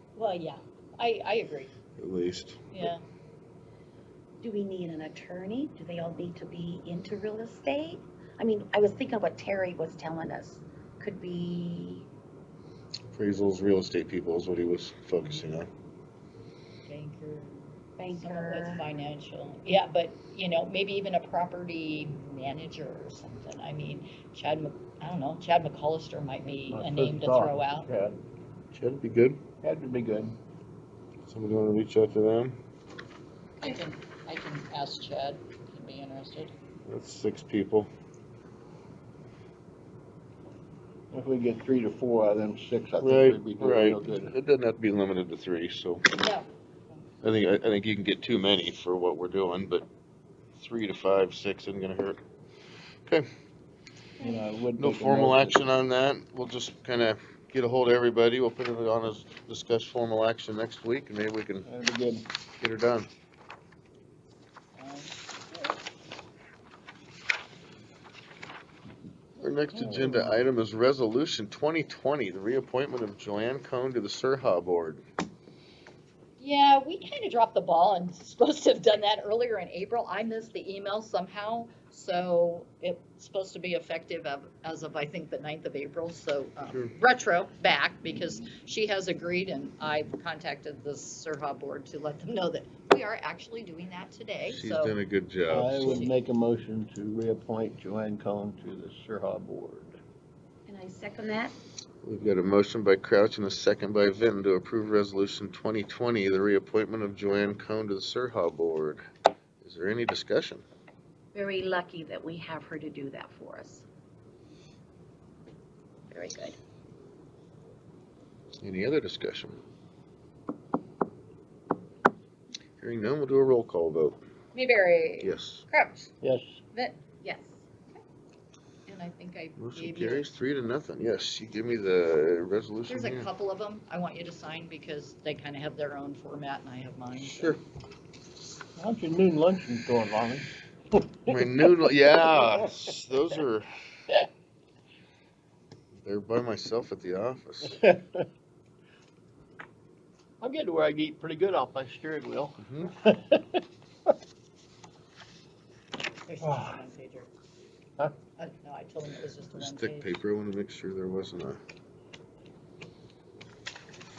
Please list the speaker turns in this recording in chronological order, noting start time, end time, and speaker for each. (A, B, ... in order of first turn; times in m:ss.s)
0:00.2-0:01.7 A
0:02.0-0:02.7 B
0:02.7-0:03.0 A
0:04.4-0:12.0 C
0:13.1-0:15.7 B
0:16.8-0:27.9 A
0:18.0-0:18.8 C
0:26.7-0:28.2 D
0:28.7-0:29.4 B
0:29.6-0:30.4 D
0:31.3-0:32.6 B
0:33.6-0:36.5 A
0:36.8-0:37.9 B
0:41.1-0:44.3 D
0:43.0-0:46.0 B
0:46.1-0:47.0 A
0:47.2-0:49.8 B
0:50.6-0:52.2 B
0:54.2-0:55.6 D
0:54.8-1:01.7 B
1:01.6-1:02.3 D
1:02.6-1:03.1 B
1:04.8-1:05.8 A
1:09.4-1:15.0 B
1:09.8-1:10.2 D
1:16.4-1:35.0 A
1:26.6-1:26.9 B
1:34.5-1:36.0 B
1:35.5-1:40.0 D
1:35.6-1:36.2 A
1:40.7-1:41.5 C
1:42.0-1:49.0 B
1:49.6-1:50.6 B
1:51.3-1:53.8 C
1:56.1-1:56.6 C
1:58.6-1:59.6 B
2:02.8-2:04.2 B
2:04.5-2:06.1 A
2:05.2-2:05.6 B
2:06.2-2:06.6 D
2:06.7-2:07.4 A
2:08.9-2:10.3 A
2:09.6-2:13.3 B
2:12.9-2:17.6 A
2:17.2-2:17.6 B
2:18.8-2:21.7 D
2:21.3-2:23.7 B
2:26.0-2:27.8 B
2:27.8-2:28.2 D
2:30.4-2:33.6 D
2:32.6-2:32.9 B
2:36.2-2:37.3 A
2:36.4-2:36.8 D
2:38.4-2:40.1 A
2:39.5-2:41.6 B